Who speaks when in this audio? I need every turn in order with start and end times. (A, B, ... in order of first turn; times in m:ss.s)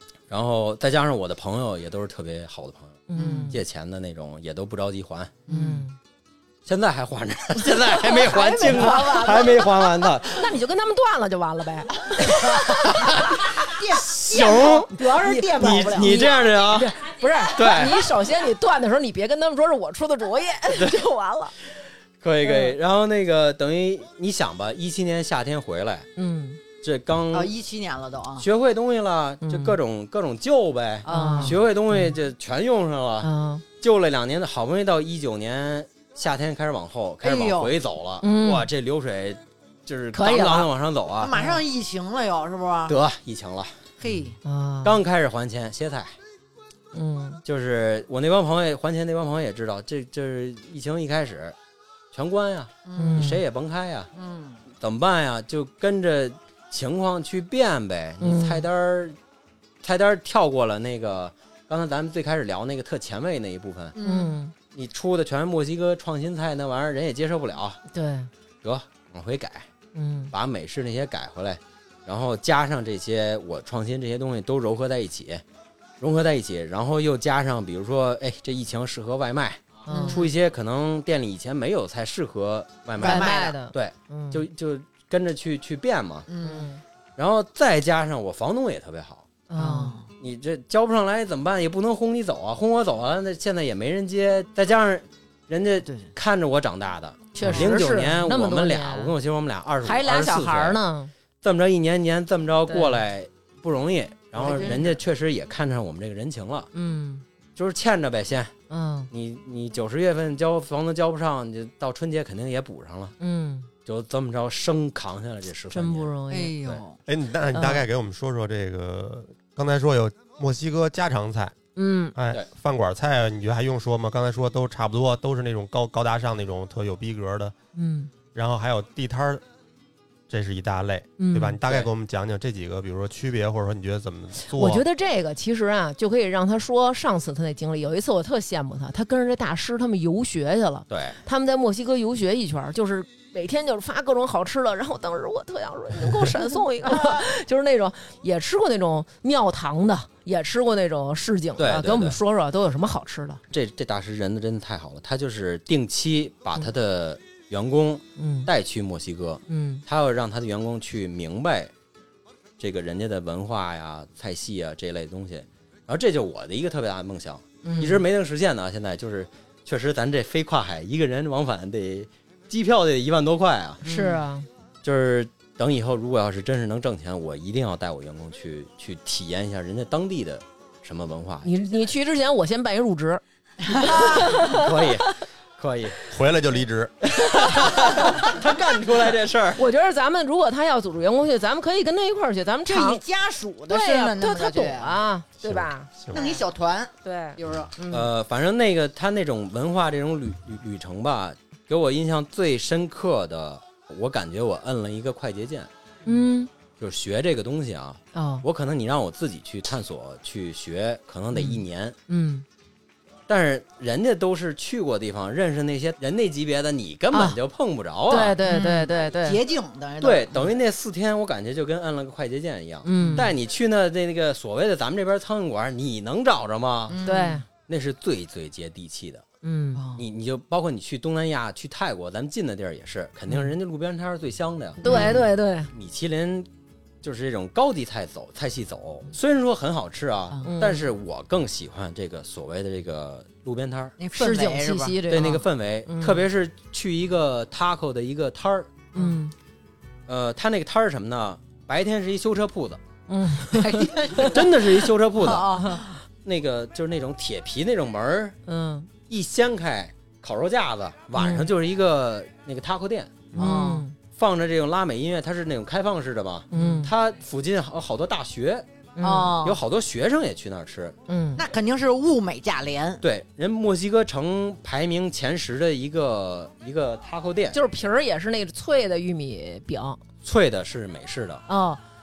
0:00.3-0:05.3 A
0:03.1-0:03.6 B
0:03.2-0:03.5 C
0:05.5-0:05.8 C
0:05.5-0:06.0 B
0:06.6-0:10.5 A
0:07.6-0:13.7 B
0:12.9-0:13.3 A
0:13.5-0:16.2 C
0:14.0-0:14.9 A
0:15.0-0:21.5 B
0:15.6-0:18.1 A
0:20.7-0:21.0 A
0:22.2-0:26.1 A
0:22.4-0:22.8 B
0:26.2-0:26.6 B
0:26.8-0:27.5 A
0:27.3-0:28.4 C
0:28.4-0:41.3 A
0:29.4-0:29.8 B
0:31.0-0:31.6 C
0:31.1-0:32.1 B
0:33.2-0:33.6 B
0:37.2-0:37.7 C
0:38.2-0:38.7 B
0:40.1-0:40.7 B
0:41.2-0:42.9 C
0:41.3-0:41.6 B
0:42.9-0:43.7 A
0:44.0-0:44.4 C
0:44.4-0:45.0 B
0:44.8-0:46.1 A
0:46.9-0:47.4 B
0:47.4-0:51.5 A
0:52.1-0:54.1 A
0:52.8-0:53.4 C
0:52.9-0:53.4 B
0:54.1-0:54.6 C
0:54.8-0:59.2 A
0:58.2-0:58.6 B
0:59.8-1:04.0 A
1:04.0-1:04.3 C
1:04.0-1:04.5 B
1:04.7-1:07.8 A
1:07.9-1:08.3 B
1:08.6-1:09.7 A
1:09.9-1:10.3 B
1:10.3-1:15.4 A
1:16.0-1:26.2 A
1:19.8-1:20.3 B
1:19.9-1:20.2 C
1:23.0-1:23.3 C
1:23.0-1:24.4 B
1:26.3-1:26.7 C
1:26.4-1:26.8 B
1:27.2-1:29.3 A
1:29.5-1:30.0 B
1:29.6-1:30.1 C
1:30.2-1:40.8 A
1:37.3-1:39.1 B
1:37.4-1:37.7 D
1:39.8-1:41.1 B
1:41.4-1:46.7 A
1:42.7-1:43.0 B
1:44.4-1:45.0 C
1:46.7-1:47.2 B
1:47.6-1:48.5 A
1:48.7-1:49.1 B
1:49.1-1:53.1 A
1:53.2-1:53.7 B
1:53.8-1:56.1 A
1:55.7-1:56.6 B
1:56.3-1:57.0 C
1:57.0-2:01.5 D
1:57.5-1:57.8 B
2:01.8-2:02.2 B
2:02.1-2:07.5 D
2:07.7-2:08.1 B
2:08.3-2:09.4 D
2:10.3-2:14.8 D
2:11.2-2:11.6 B
2:14.4-2:33.4 B
2:20.9-2:21.2 A
2:31.6-2:32.2 A
2:33.5-2:41.7 A
2:38.2-2:38.5 B
2:39.5-2:39.8 B
2:42.6-2:53.8 A
2:47.6-2:48.0 B
2:53.8-2:54.5 B
2:53.8-2:54.2 C
2:54.8-3:01.5 A
3:01.4-3:05.1 B
3:03.6-3:04.4 C
3:04.5-3:06.0 A
3:06.0-3:07.1 D
3:07.0-3:09.6 A
3:07.3-3:08.2 B
3:09.6-3:13.0 B
3:12.7-3:15.0 C
3:13.7-3:16.4 B
3:15.4-3:16.2 D
3:16.1-3:17.8 C
3:17.0-3:18.1 B
3:17.9-3:25.7 A
3:26.0-3:26.5 B
3:26.8-3:32.0 A
3:28.1-3:28.4 B
3:31.3-3:32.4 B
3:33.3-3:38.4 A
3:37.1-3:37.4 B
3:38.1-3:39.4 B
3:38.4-3:40.6 C
3:40.0-3:47.0 A
3:42.8-3:43.3 B
3:42.9-3:43.3 C
3:46.9-3:47.4 C
3:47.0-3:47.4 B
3:47.6-3:49.2 A
3:49.4-3:49.8 B
3:49.7-3:50.0 C
3:49.9-3:56.5 A
3:54.8-3:55.2 C
3:54.8-3:55.7 B
3:57.0-4:04.0 A
4:00.4-4:00.9 B
4:04.0-4:05.4 C
4:04.1-4:06.2 B
4:05.1-4:08.9 A
4:08.9-4:09.3 B
4:10.1-4:12.8 A
4:13.1-4:14.5 B
4:13.4-4:14.6 C
4:14.3-4:15.6 A
4:15.2-4:15.9 C
4:15.5-4:15.9 B
4:16.2-4:18.4 A
4:18.4-4:18.9 B
4:19.1-4:23.3 A
4:21.2-4:21.5 B
4:23.3-4:24.0 B
4:23.4-4:23.8 C
4:24.1-4:28.6 A
4:26.5-4:26.9 B
4:26.5-4:26.8 C
4:29.0-4:29.4 B
4:29.0-4:29.6 C
4:29.4-4:30.9 A
4:31.1-4:31.4 B
4:31.4-4:33.0 C
4:33.0-4:37.6 A
4:37.5-4:40.0 B
4:40.2-4:41.4 A
4:41.5-4:41.8 B